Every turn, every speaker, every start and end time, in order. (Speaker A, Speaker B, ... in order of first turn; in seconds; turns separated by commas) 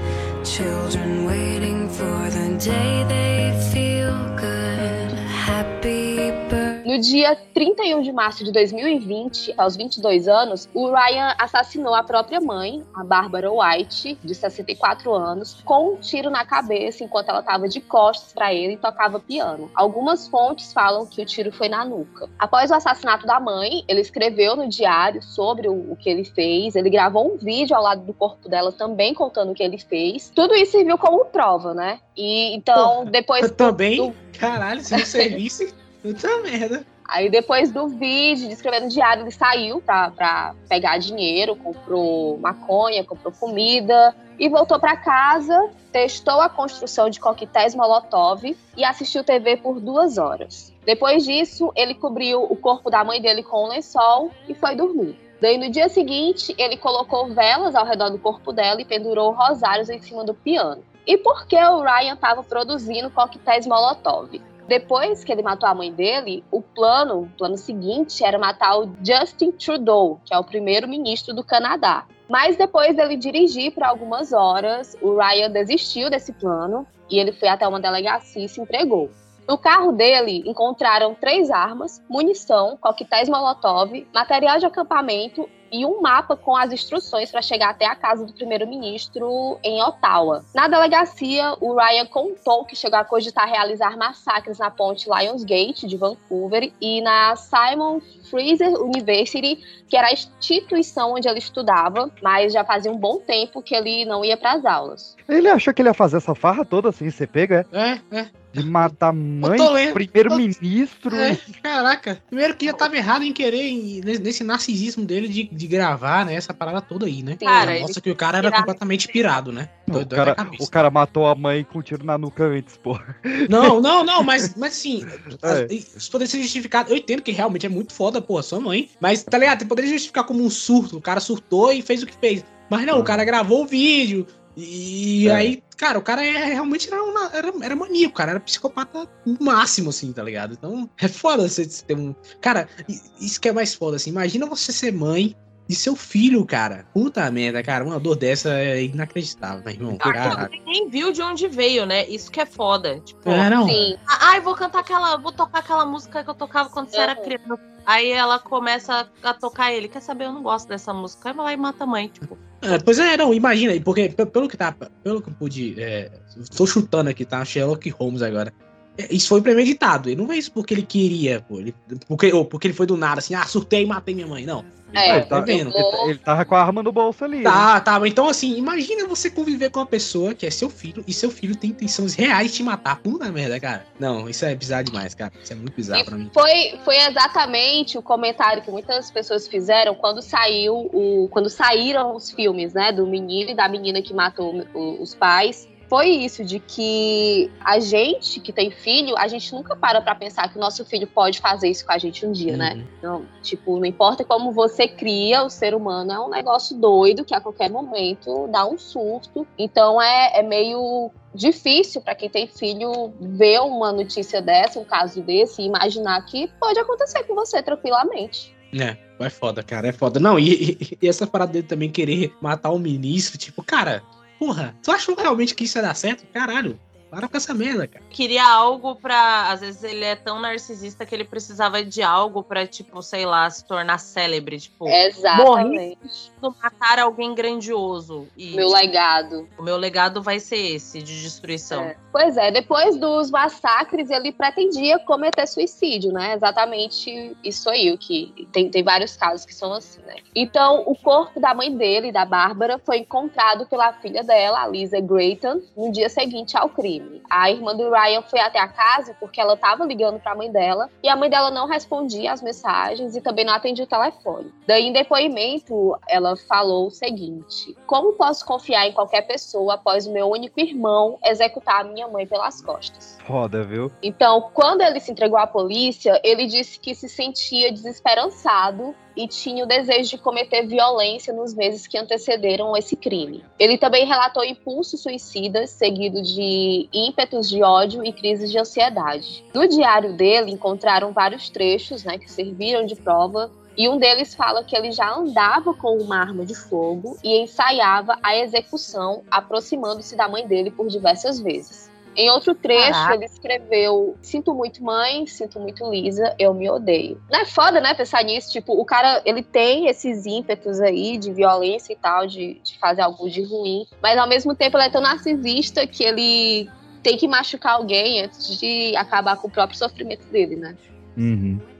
Speaker A: 0.4-6.8, Speaker B: 6.8-34.1, Speaker C: 32.7-36.8, Speaker B: 35.0-35.3, Speaker B: 37.1-105.1, Speaker D: 105.3-107.7, Speaker C: 107.7-110.4, Speaker D: 108.5-111.4, Speaker C: 111.1-120.7, Speaker B: 117.4-117.8, Speaker E: 117.4-119.4, Speaker D: 119.9-124.5, Speaker C: 123.5-150.5, Speaker D: 125.2-125.7, Speaker D: 132.9-133.3, Speaker D: 135.2-135.5, Speaker D: 150.0-150.4, Speaker E: 150.0-162.4, Speaker C: 153.2-153.9, Speaker B: 153.6-154.0, Speaker B: 156.9-157.3, Speaker C: 162.6-175.7, Speaker B: 174.9-176.1, Speaker D: 175.0-177.7, Speaker C: 177.4-186.3, Speaker B: 185.9-218.5, Speaker C: 202.5-202.8, Speaker C: 218.7-228.0, Speaker E: 228.1-235.8, Speaker B: 234.9-236.1, Speaker E: 236.4-238.8, Speaker B: 238.5-239.5, Speaker E: 239.6-241.9, Speaker B: 241.7-273.2, Speaker D: 273.2-273.9, Speaker B: 274.0-320.8, Speaker E: 302.7-303.2, Speaker D: 321.1-321.6